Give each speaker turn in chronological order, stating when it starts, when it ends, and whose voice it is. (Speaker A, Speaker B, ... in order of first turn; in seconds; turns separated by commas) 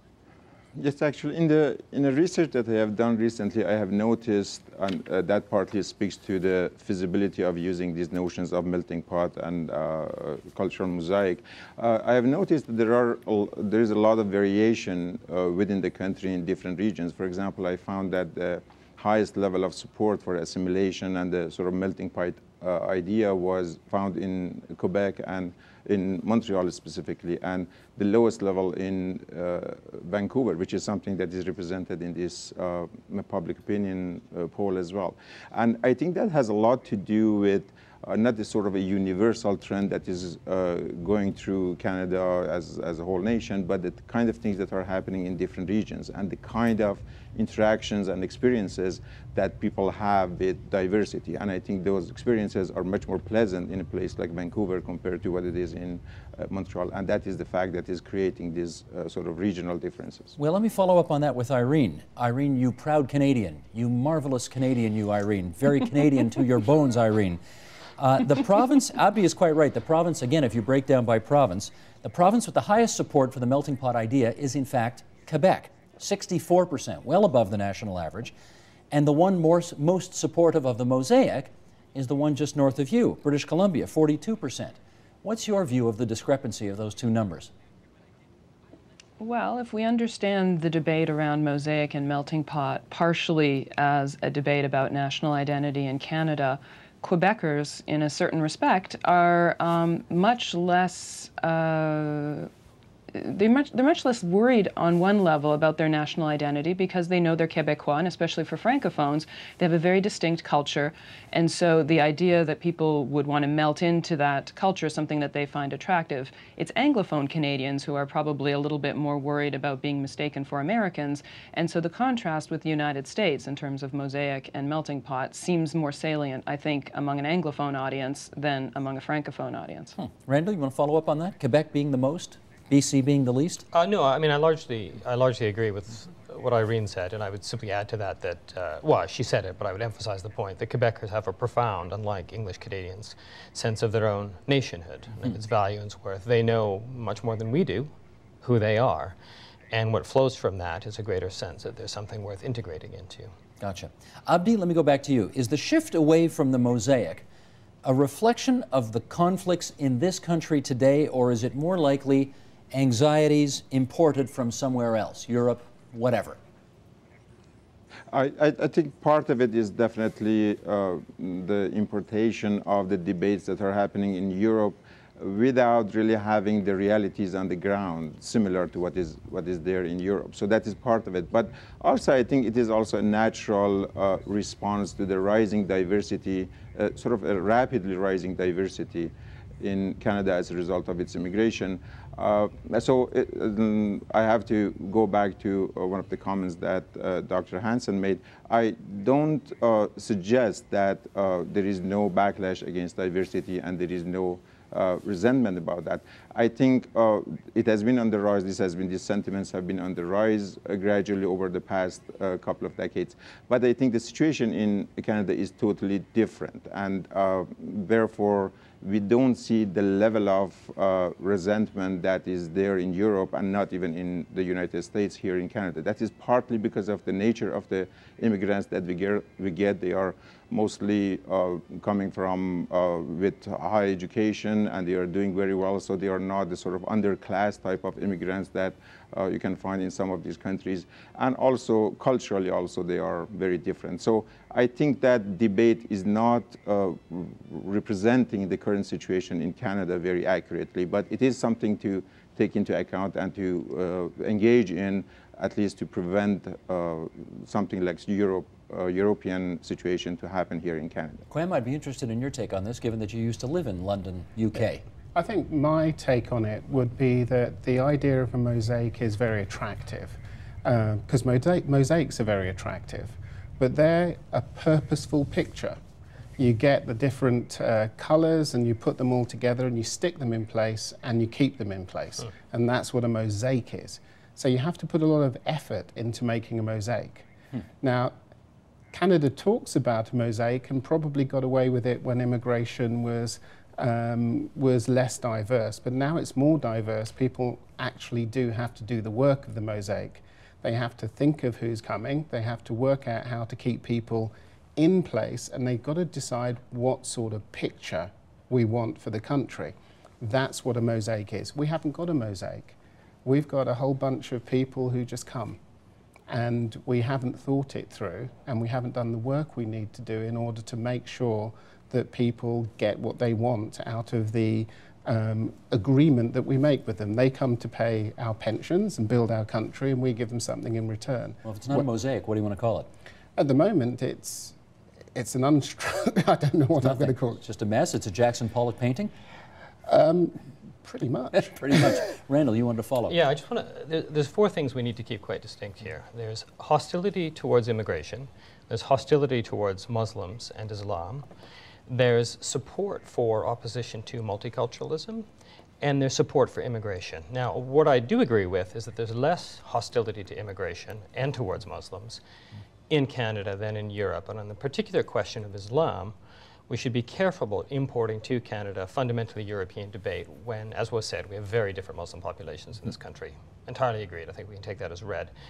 Speaker A: 0.7-60.4, Speaker B: 60.4-67.4, Speaker B: 68.0-78.3, Speaker B: 78.9-87.5, Speaker C: 89.2-102.5, Speaker C: 103.1-129.9, Speaker B: 130.0-133.6, Speaker D: 133.7-147.9, Speaker D: 148.4-149.2, Speaker D: 149.7-153.3, Speaker B: 153.6-157.2, Speaker B: 157.8-166.4, Speaker A: 168.1-261.2, Speaker B: 261.3-264.8, Speaker E: 265.1-275.8, Speaker E: 276.4-287.3, Speaker E: 287.8-288.1, Speaker E: 288.9-315.6, Speaker E: 316.3-331.8, Speaker B: 331.4-332.9, Speaker E: 333.4-334.6, Speaker E: 335.1-337.4, Speaker B: 336.8-339.1, Speaker E: 339.9-342.0, Speaker B: 341.4-343.2, Speaker D: 343.1-351.2, Speaker D: 351.9-355.2, Speaker D: 355.8-362.2, Speaker D: 362.9-366.1, Speaker D: 366.7-375.3